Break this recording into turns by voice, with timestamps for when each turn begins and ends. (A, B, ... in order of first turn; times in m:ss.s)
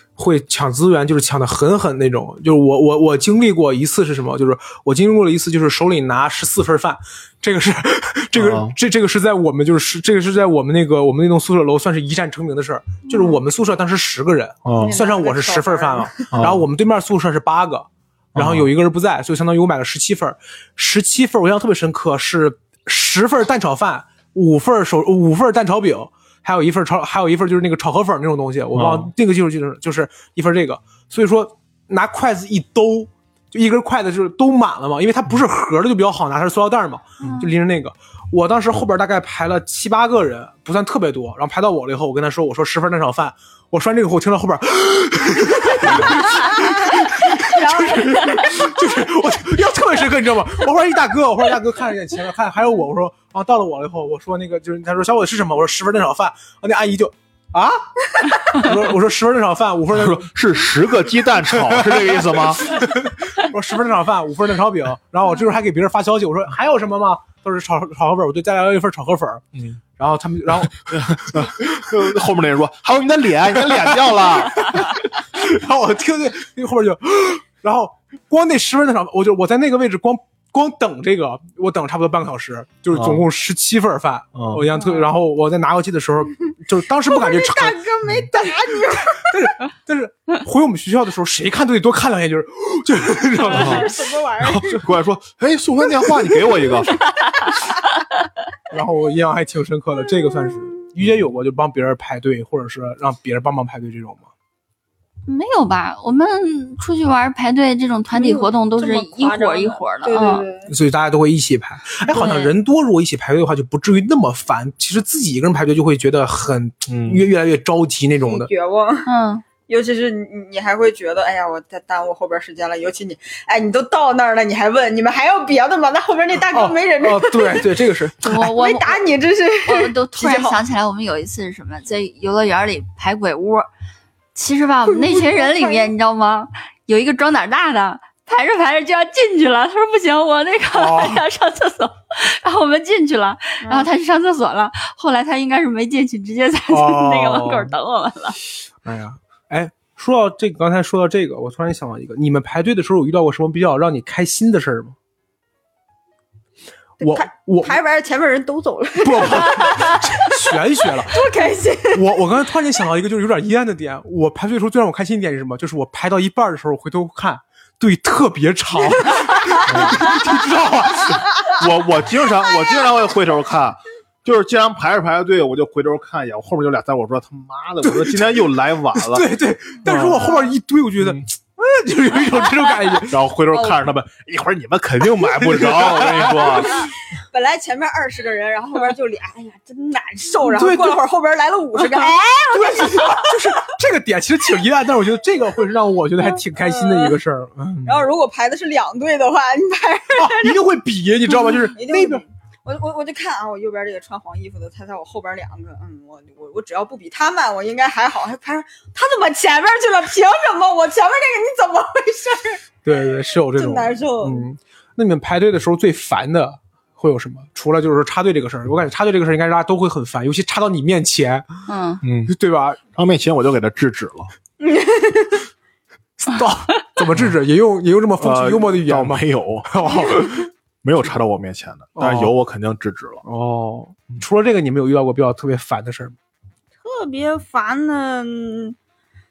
0:00.2-1:00.3 A
0:08.3-0:08.7 B
0:14.6-0:15.0 B
0:14.8-0:16.3 C
0:16.3-0:16.7 B
0:18.3-0:18.7 B
0:28.7-0:29.1 B
0:37.2-0:37.5 D
0:46.5-0:48.7 C
0:59.9-1:02.8 B
1:01.5-1:09.4 A
1:10.0-1:11.7 A
1:10.9-1:14.9 B
1:13.7-1:27.8 A
1:22.9-1:23.2 B
1:24.3-1:24.6 B
1:27.0-1:29.4 C
1:28.3-1:34.0 A
1:33.4-1:34.8 C
1:33.5-1:37.0 B
1:38.7-1:44.3 A
1:45.3-1:50.4 D
1:48.1-1:50.7 C
1:50.7-1:58.5 A
1:52.1-1:52.5 D
1:56.9-1:57.3 B
1:58.2-1:59.1 C
1:59.0-1:59.4 D
1:59.7-2:07.7 C
2:06.5-2:08.4 A
2:08.2-2:09.0 D
2:08.3-2:10.6 C
2:09.6-2:13.7 D
2:14.3-2:28.4 D
2:14.9-2:15.9 C
2:20.7-2:21.2 A
2:23.6-2:23.9 C
2:26.7-2:27.7 A
2:28.8-2:34.9 A
2:37.0-2:40.4 C
2:37.0-2:37.8 A
2:39.0-2:41.3 A
2:41.0-2:42.0 C
2:41.9-2:51.2 A
2:49.7-2:50.1 B
2:51.1-2:59.3 B
2:57.8-2:58.4 A
2:58.9-3:03.2 A
2:59.8-3:00.3 B
3:00.1-3:00.5 C
3:01.0-3:01.2 B
3:03.1-3:06.9 B
3:03.5-3:03.8 C
3:05.3-3:06.6 A
3:06.6-3:13.6 C
3:10.4-3:11.0 A
3:11.8-3:18.1 A
3:16.5-3:17.2 C
3:17.8-3:20.6 C
3:20.2-3:22.2 A
3:21.3-3:32.6 C
3:32.8-3:41.4 A
3:33.5-3:34.4 C
3:41.7-3:42.0 D
3:42.0-3:42.3 B
3:42.3-3:42.8 A
3:43.0-3:44.3 B
3:44.6-3:45.4 C
3:46.2-3:50.5 A
3:48.2-3:53.2 B
3:52.0-3:52.3 A
3:53.2-3:56.1 A
3:56.8-3:58.8 C